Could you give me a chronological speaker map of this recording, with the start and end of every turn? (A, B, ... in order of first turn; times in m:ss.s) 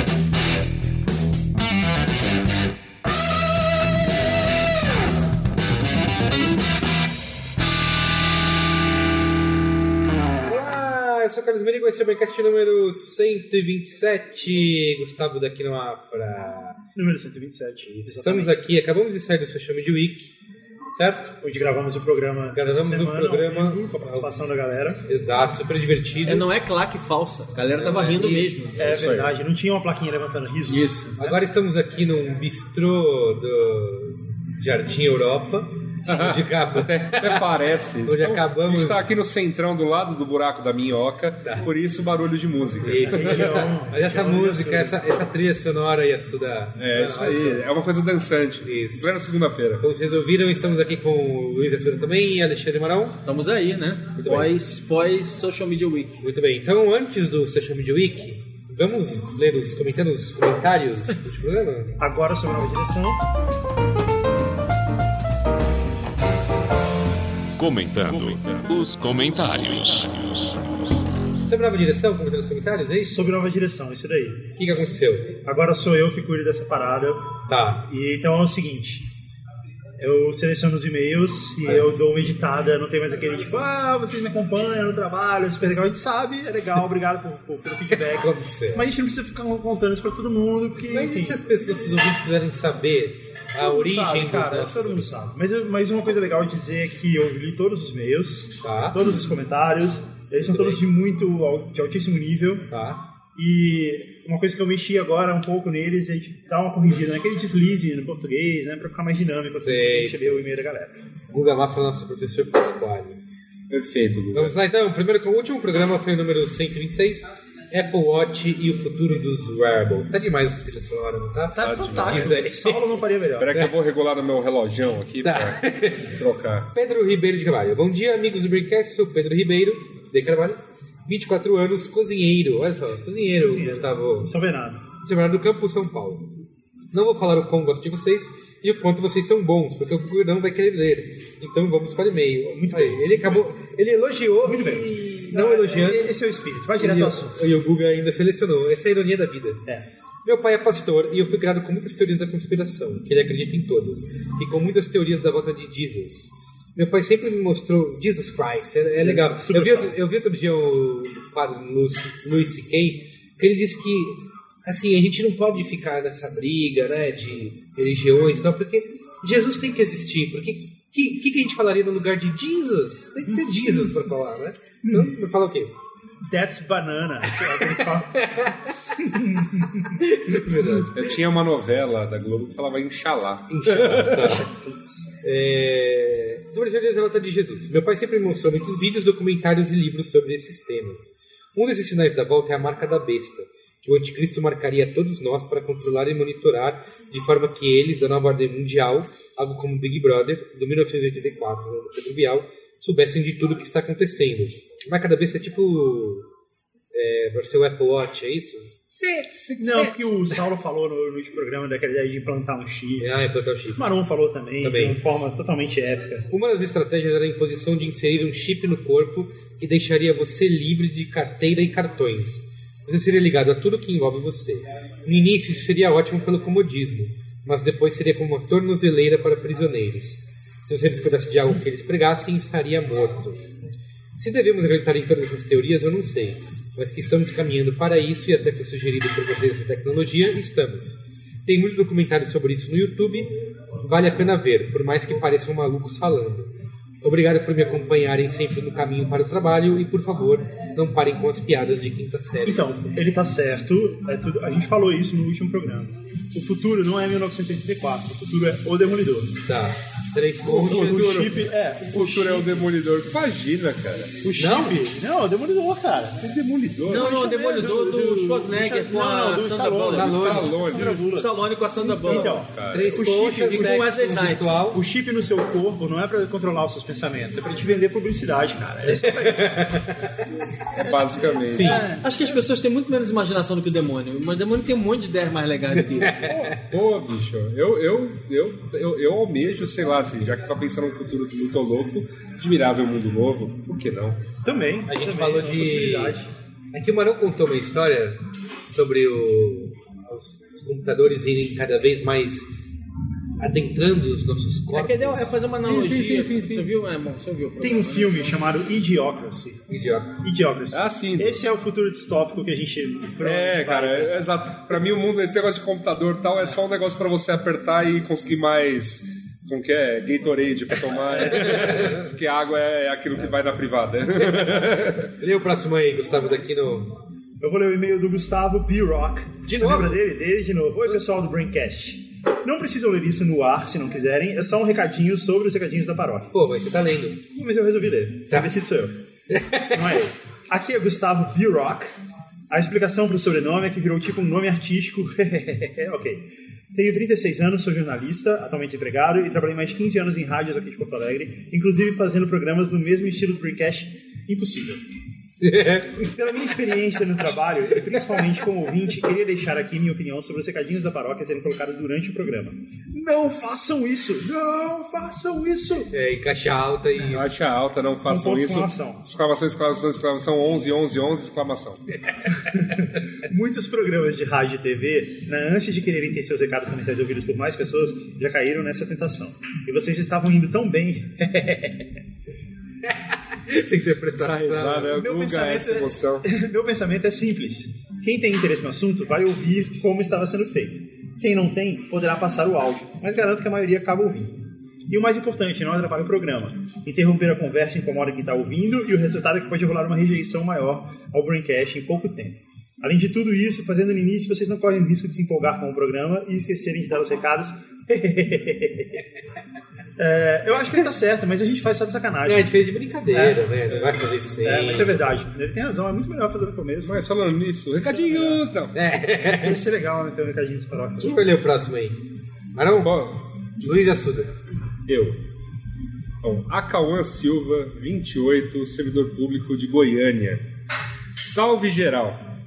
0:10.4-0:16.8 A
0:17.0-0:18.6 B
0:18.0-0:20.3 A
0:20.9-0:21.4 A
0:21.4-0:25.0 B
0:22.5-0:24.4 A
0:25.1-0:26.5 A
0:26.2-0:28.9 C
0:27.8-0:28.7 A
0:28.8-0:31.4 B
0:28.8-0:29.3 D
0:30.7-0:31.1 D
0:31.2-0:37.5 A
0:36.1-0:43.7 D
0:38.0-0:39.1 A
0:41.4-0:41.7 A
0:42.8-0:47.7 A
0:43.0-0:45.0 B
0:46.8-0:49.8 D
0:48.6-0:49.1 A
0:49.8-0:53.2 A
0:53.3-0:56.2 C
0:54.2-0:54.5 A
0:56.2-1:02.0 A
1:02.0-1:03.2 B
1:07.6-1:10.6 E
1:11.5-1:13.3 A
1:13.0-1:14.5 B
1:14.6-1:15.4 A
1:15.4-1:17.4 B
1:17.5-1:17.8 A
1:17.9-1:19.1 B
1:20.0-1:31.4 B
1:21.6-1:21.9 A
1:27.9-1:28.9 A
1:30.9-1:35.1 A
1:33.6-1:42.7 B
1:38.6-1:39.0 A
1:40.4-1:40.8 A
1:42.7-1:43.0 A
1:43.4-1:51.0 B
1:49.6-1:50.5 A
1:51.3-1:53.2 A
1:53.7-1:54.6 D
1:54.3-2:03.0 A
2:01.5-2:03.6 B
2:01.6-2:02.5 D
2:03.4-2:06.7 D
2:05.2-2:06.2 A
2:06.7-2:14.3 A
2:13.4-2:14.8 B
2:15.0-2:16.3 A
2:16.9-2:26.1 A
2:22.5-2:23.5 B
2:24.4-2:27.4 B
2:25.3-2:26.1 C
2:26.8-2:29.6 A
2:30.2-2:55.8 A
2:39.0-2:40.0 B
2:53.3-2:54.0 B
2:54.8-2:55.2 B
2:56.2-2:58.3 B
2:57.3-2:58.6 A
2:59.0-3:00.0 B
2:59.9-3:01.1 A
3:00.9-3:04.3 D
3:03.5-3:04.5 A
3:04.1-3:05.1 B
3:05.2-3:26.3 A
3:26.9-3:30.4 A
3:29.6-3:33.1 B
3:33.0-3:33.9 A
3:33.7-3:36.3 B
3:34.6-3:35.0 A
3:36.3-3:53.4 A
3:54.2-4:06.5 A
4:07.0-4:13.0 A
4:12.4-4:19.4 B
4:19.5-4:21.2 A
4:20.4-4:22.6 B
4:20.4-4:21.4 D
4:21.9-4:24.2 D
4:24.2-4:26.2 B
4:24.4-4:24.8 A
4:26.2-4:27.1 D
4:26.9-4:32.4 C
4:26.9-4:31.4 B
4:29.9-4:31.0 D
4:30.0-4:30.6 A
4:32.0-4:33.8 B
4:32.1-4:33.0 D
4:32.7-4:34.8 A
4:33.4-4:34.7 C
4:34.6-4:39.7 B
4:38.9-4:39.9 A
4:40.8-4:42.1 B
4:40.8-4:41.8 D
4:41.6-4:41.9 A
4:42.0-4:46.4 C
4:45.7-4:46.6 A
4:46.2-4:46.5 B
4:46.3-4:54.2 D
4:54.4-4:56.3 B
4:54.9-4:56.2 A
4:56.7-5:02.5 A
5:03.4-5:05.4 A
5:04.7-5:08.1 C
5:05.6-5:06.7 D
5:07.6-5:09.6 B
5:09.7-5:10.2 A
5:10.2-5:14.8 B
5:10.7-5:11.4 D
5:13.2-5:25.1 D
5:21.1-5:21.8 B
5:25.2-5:27.0 A
5:27.4-5:36.3 B
5:29.4-5:30.0 A
5:36.3-5:37.2 A
5:37.4-5:39.0 B
5:39.3-5:39.9 A
5:39.6-5:41.9 B
5:42.5-5:54.8 B
5:55.4-5:56.1 A
5:56.0-6:05.9 B
5:57.8-5:58.2 A
6:05.9-6:07.3 A
6:07.1-6:11.8 D
6:08.0-6:09.0 B
6:12.5-6:22.0 B
6:23.5-6:25.0 A
6:24.2-6:26.3 D
6:24.9-6:49.0 B
6:50.0-6:53.6 B
6:52.2-6:55.0 A
6:53.7-6:54.0 D
6:54.4-6:57.1 B
6:56.8-6:58.8 D
6:58.1-6:59.6 A
6:59.3-7:01.3 B
7:01.0-7:02.0 A
7:02.6-7:03.0 A
7:02.8-7:03.2 D
7:03.6-7:04.3 A
7:04.9-7:05.2 D
7:06.2-7:10.4 D
7:11.2-7:12.2 D